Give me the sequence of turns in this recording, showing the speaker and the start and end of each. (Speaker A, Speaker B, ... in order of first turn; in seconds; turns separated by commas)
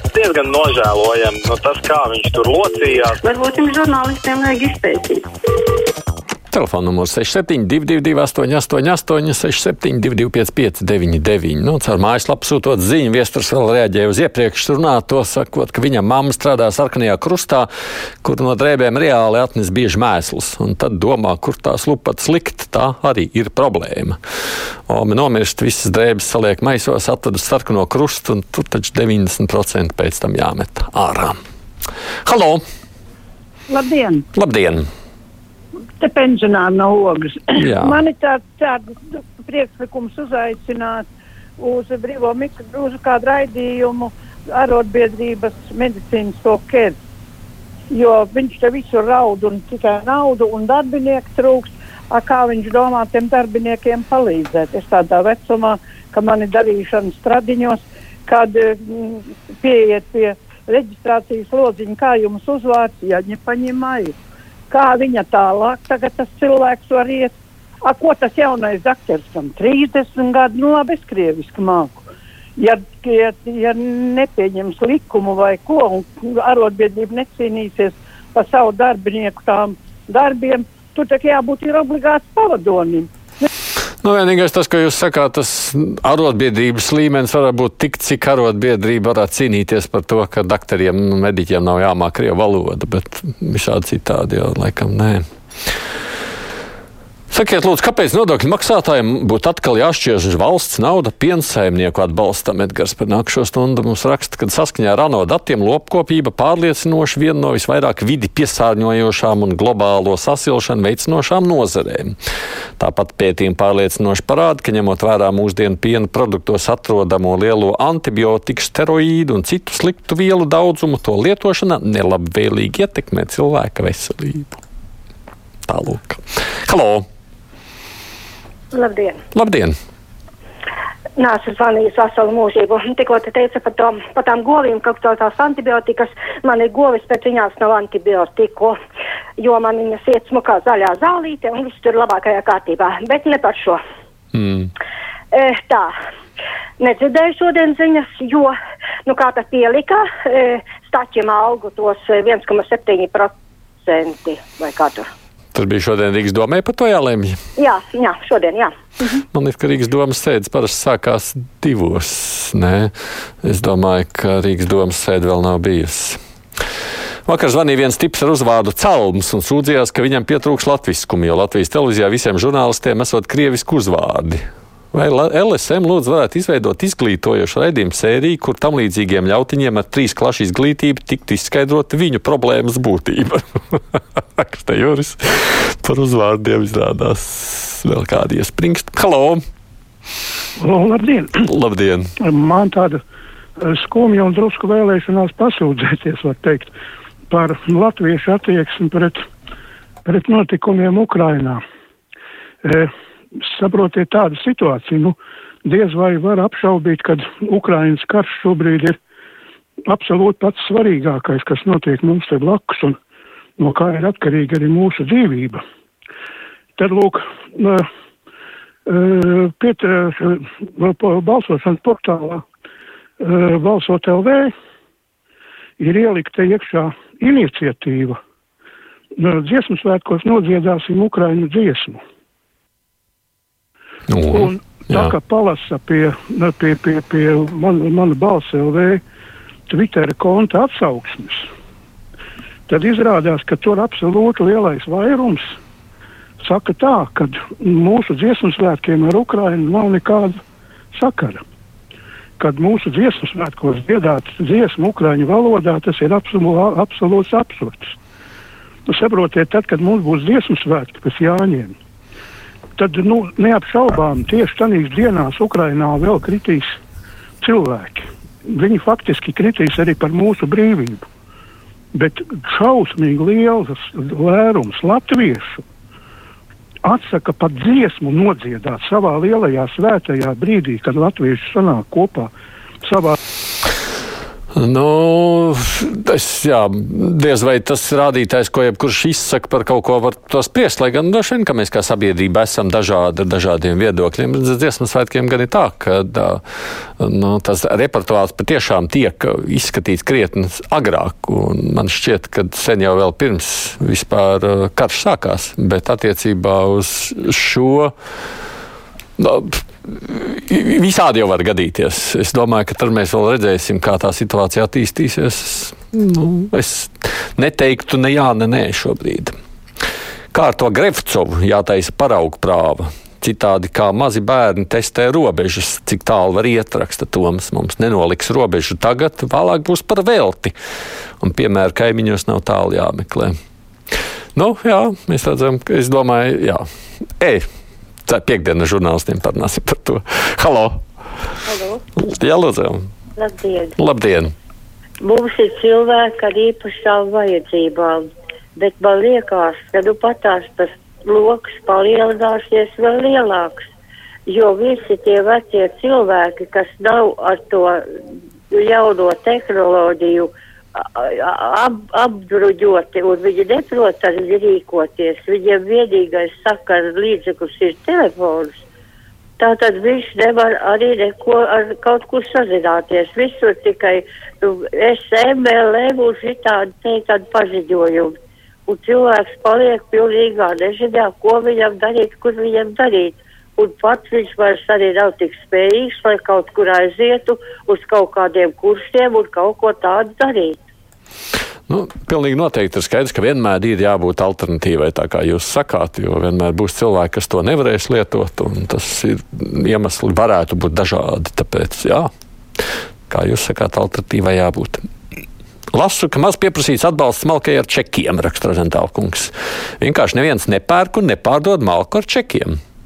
Speaker A: 0.1-3.3, Speaker B: 3.3-5.3, Speaker C: 6.5-17.7, Speaker C: 18.2-24.2, Speaker C: 24.9-31.4, Speaker C: 32.2-32.6, Speaker D: 33.7-34.2, Speaker C: 34.3-34.9, Speaker D: 36.0-41.0, Speaker C: 37.6-38.0, Speaker D: 41.6-47.0, Speaker D: 47.9-64.2, Speaker D: 64.7-72.0, Speaker D: 72.6-83.5, Speaker C: 84.0-95.2, Speaker C: 97.3-112.2, Speaker C: 112.8-124.6, Speaker C: 125.7-127.0, Speaker E: 128.7-129.2, Speaker C: 129.3-129.8, Speaker E: 131.2-138.8, Speaker E: 139.4-143.8, Speaker E: 145.3-145.9, Speaker E: 146.8-148.5, Speaker E: 149.1-155.1, Speaker C: 155.5-157.4, Speaker E: 157.6-158.7, Speaker C: 159.3-162.9, Speaker C: 163.4-166.2, Speaker C: 167.3-189.4, Speaker F: 190.6-191.4, Speaker C: 191.5-192.1, Speaker F: 192.2-193.0, Speaker F: 193.6-196.7, Speaker F: 197.3-199.2, Speaker F: 200.1-201.6, Speaker F: 202.6-202.9, Speaker F: 203.4-209.0, Speaker F: 209.9-213.0, Speaker F: 213.6-215.6, Speaker F: 216.8-217.8, Speaker F: 218.9-222.4, Speaker F: 223.2-224.5, Speaker F: 225.8-228.2, Speaker F: 229.2-232.0, Speaker C: 234.1-235.1, Speaker F: 234.2-239.0, Speaker F: 239.7-241.5, Speaker F: 242.7-245.6, Speaker F: 246.4-250.4, Speaker F: 250.9-251.4, Speaker F: 252.4-257.9, Speaker F: 258.9-261.8, Speaker F: 262.8-266.8, Speaker F: 267.4-271.1, Speaker F: 271.9-275.6, Speaker F: 276.8-282.3, Speaker F: 282.8-283.2, Speaker C: 284.6-296.4, Speaker C: 297.0-307.9, Speaker C: 309.2-319.3, Speaker C: 320.3-330.6, Speaker C: 331.2-333.3, Speaker C: 334.4-336.6, Speaker C: 338.1-340.8, Speaker G: 341.5-341.8, Speaker C: 342.0-342.9, Speaker G: 343.2-343.8, Speaker C: 343.8-344.3, Speaker G: 345.0-353.6, Speaker G: 354.3-357.8, Speaker G: 358.5-368.6, Speaker G: 369.4-378.2, Speaker G: 378.7-390.6, Speaker C: 391.7-402.1, Speaker C: 403.1-404.8, Speaker C: 405.7-412.6